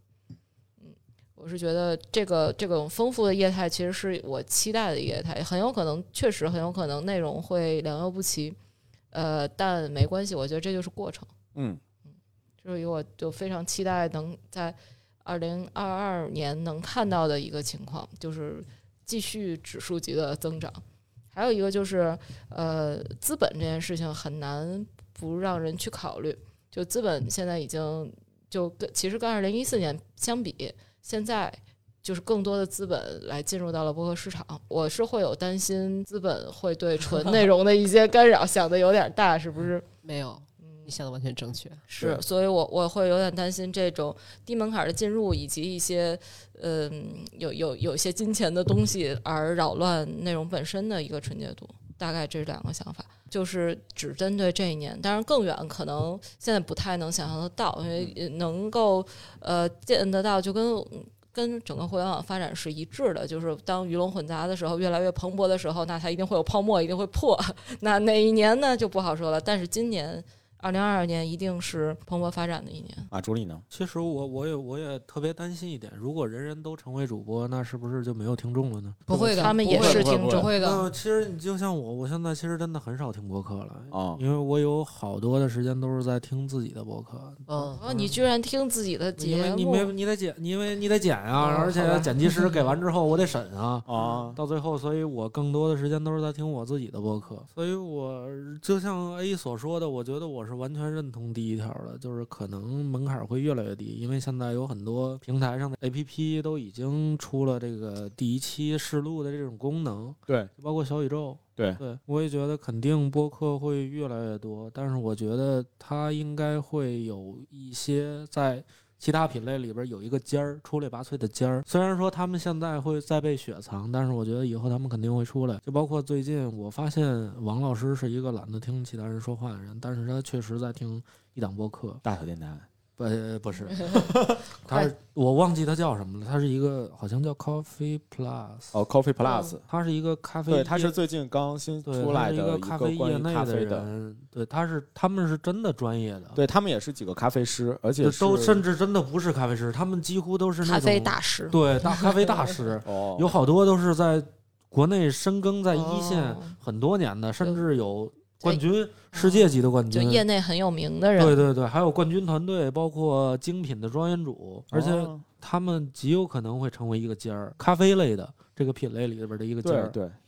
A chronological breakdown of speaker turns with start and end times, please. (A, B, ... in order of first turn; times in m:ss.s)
0:00.8-0:08.6 A
0:09.1-0:11.3 A
0:11.5-0:11.8 B
0:12.6-0:20.8 A
0:21.3-0:39.8 A
0:40.0-0:41.9 C
0:40.6-0:41.0 A
0:41.9-1:13.1 A
0:42.0-0:42.2 B
1:13.1-1:13.6 B
1:13.7-1:19.6 D
1:19.1-1:20.9 C
1:19.3-1:20.5 A
1:19.7-1:20.5 B
1:20.6-1:28.0 D
1:23.9-1:24.2 B
1:27.5-1:28.1 C
1:27.8-1:29.9 A
1:29.2-2:12.0 D
1:31.4-1:32.6 C
1:33.9-1:34.4 B
2:12.0-2:12.7 B
2:13.0-2:18.7 D
2:13.9-2:14.8 B
2:18.7-2:19.6 B
2:19.2-2:19.6 A
2:19.7-2:21.0 D
2:20.5-2:23.9 B
2:21.8-2:26.4 D
2:26.3-2:28.6 B
2:28.0-2:40.2 D
2:30.6-2:32.3 A
2:32.8-2:33.4 B
2:35.7-2:36.5 A
2:39.1-2:41.4 A
2:41.2-2:50.0 D
2:44.7-2:45.2 B
2:49.6-2:50.2 B